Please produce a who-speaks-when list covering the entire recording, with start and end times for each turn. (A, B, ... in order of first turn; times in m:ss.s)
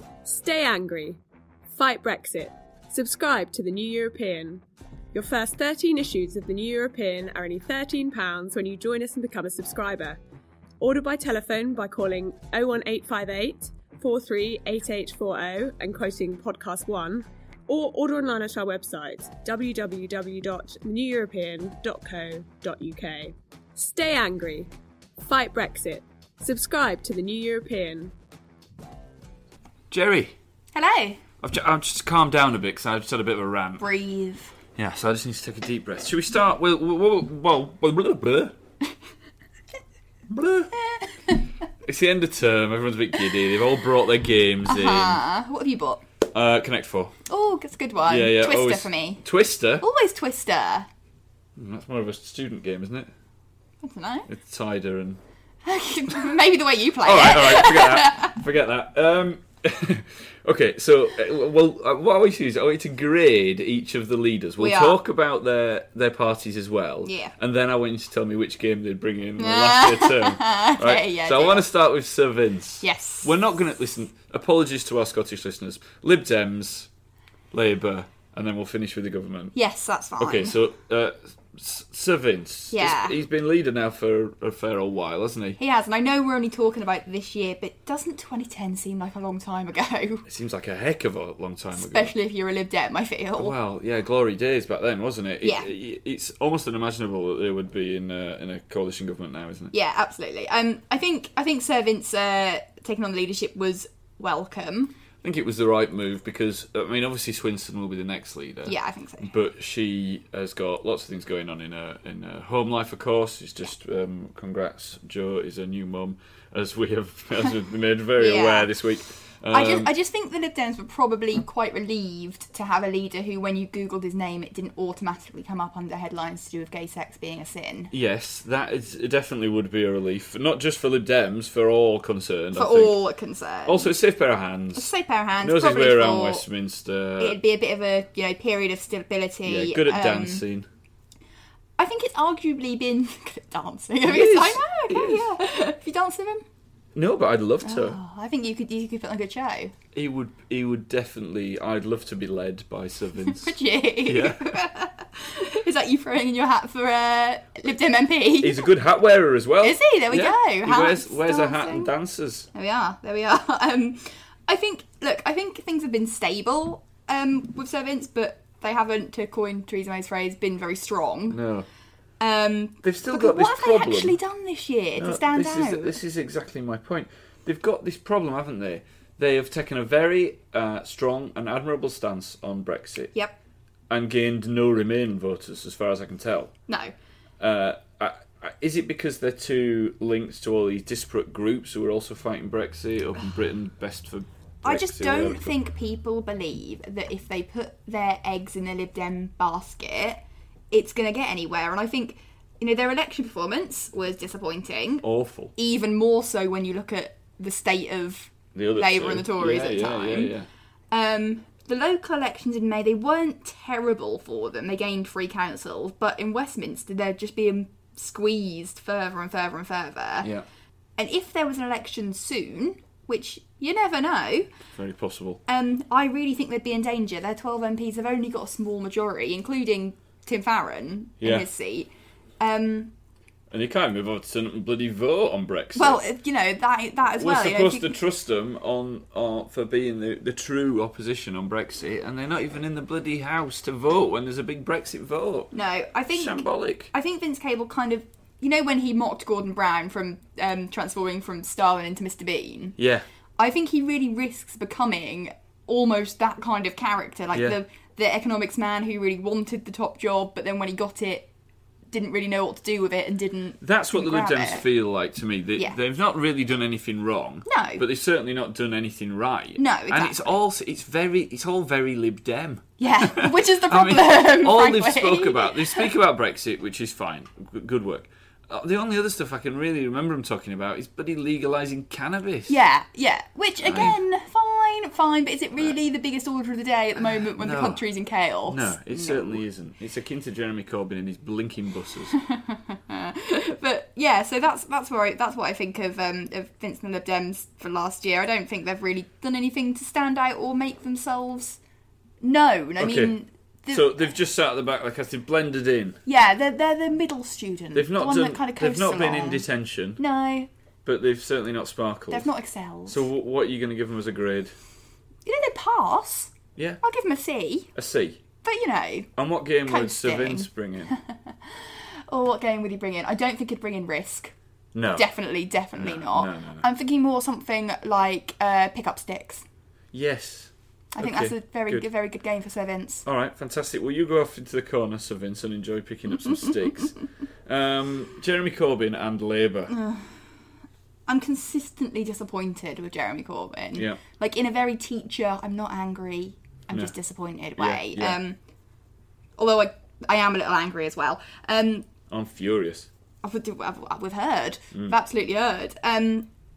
0:00.2-0:01.2 A
0:01.7-0:10.2 A
0:10.8-0:24.7 A
0:25.2-0:28.1 A
0:29.9-0:30.4 B
0:30.7-0:31.2 C
0:31.4-0:33.9 B
0:33.8-0:34.5 C
0:34.8-0:38.6 B
0:40.3-0:40.7 B
0:40.9-0:41.4 C
0:41.9-0:45.2 B
0:44.7-0:46.0 C
0:46.3-0:47.2 B
0:47.3-0:49.2 C
0:48.1-0:49.9 B
0:49.8-0:50.9 C
0:51.6-0:53.1 B
0:53.8-0:54.3 C
0:54.3-0:55.2 B
0:55.6-0:58.4 C
0:57.0-1:16.9 B
1:04.6-1:05.0 C
1:07.0-1:07.3 C
1:09.4-1:11.7 C
1:12.8-1:13.3 C
1:17.5-1:19.6 B
1:19.6-1:20.6 C
1:20.2-1:25.6 B
1:22.7-1:23.2 C
1:25.6-1:30.2 C
1:30.3-1:32.1 B
1:31.8-1:33.6 C
1:33.4-1:39.7 B
1:35.4-1:35.7 C
1:39.7-1:44.9 C
1:45.2-1:59.9 B
1:48.6-1:49.3 C
1:58.2-1:58.7 C
1:59.5-2:07.9 C
2:07.9-2:13.0 B
2:12.5-2:13.9 C
2:13.7-2:17.4 B
2:14.8-2:16.4 C
2:17.2-2:20.4 C
2:19.4-2:20.7 B
2:21.8-2:26.4 C
2:24.0-2:25.3 B
2:27.0-2:28.0 B
2:27.6-2:29.7 C
2:29.9-2:34.5 B
2:33.3-2:38.7 C
2:38.4-2:42.5 B
2:39.6-2:41.9 C
2:42.5-2:51.4 C
2:51.3-2:51.7 B
2:52.2-2:56.0 C
2:52.8-2:54.2 B
2:55.0-3:03.1 B
3:03.9-3:06.5 B
3:06.7-3:06.9 C
3:07.4-3:15.5 B
3:14.6-3:30.3 C
3:25.0-3:25.5 B
3:28.6-3:30.5 B
3:30.9-3:40.3 C
3:40.2-3:40.5 B
3:41.0-3:44.5 C
3:44.8-3:45.4 B
3:45.5-3:51.9 C
3:51.2-3:51.5 B
3:52.4-3:52.9 C
3:53.5-3:56.0 B
3:55.8-3:58.0 C
3:57.2-4:05.5 B
4:05.5-4:12.8 C
4:06.1-4:06.9 B
4:12.8-4:13.0 B
4:13.4-4:21.3 C
4:21.9-4:24.6 C
4:23.6-4:42.6 B
4:27.5-4:27.8 C
4:29.6-4:30.4 C
4:32.8-4:35.9 C
4:42.5-4:49.4 C
4:43.6-4:44.0 B
4:47.0-4:47.8 B
4:48.5-4:52.2 B
4:52.1-5:01.6 C
5:02.2-5:04.1 C
5:02.8-5:03.2 B
5:03.7-5:06.0 B
5:06.1-5:09.5 C
5:07.7-5:10.0 B
5:10.0-5:10.5 C
5:10.8-5:12.3 B
5:12.1-5:13.0 C
5:12.9-5:14.5 B
5:15.3-5:17.7 C
5:16.6-5:16.8 B
5:17.8-5:18.2 B
5:18.4-5:19.1 C
5:19.2-5:20.9 B
5:19.7-5:24.3 C
5:24.7-5:25.1 B
5:25.0-5:29.4 C
5:25.8-5:26.7 B
5:29.9-5:31.9 B
5:31.0-5:33.0 C
5:33.1-5:39.7 B
5:39.7-5:40.1 C
5:41.1-5:48.4 C
5:43.8-5:44.0 B
5:47.6-5:48.2 B
5:49.4-5:51.9 C
5:52.1-5:52.9 B
5:53.2-5:56.3 C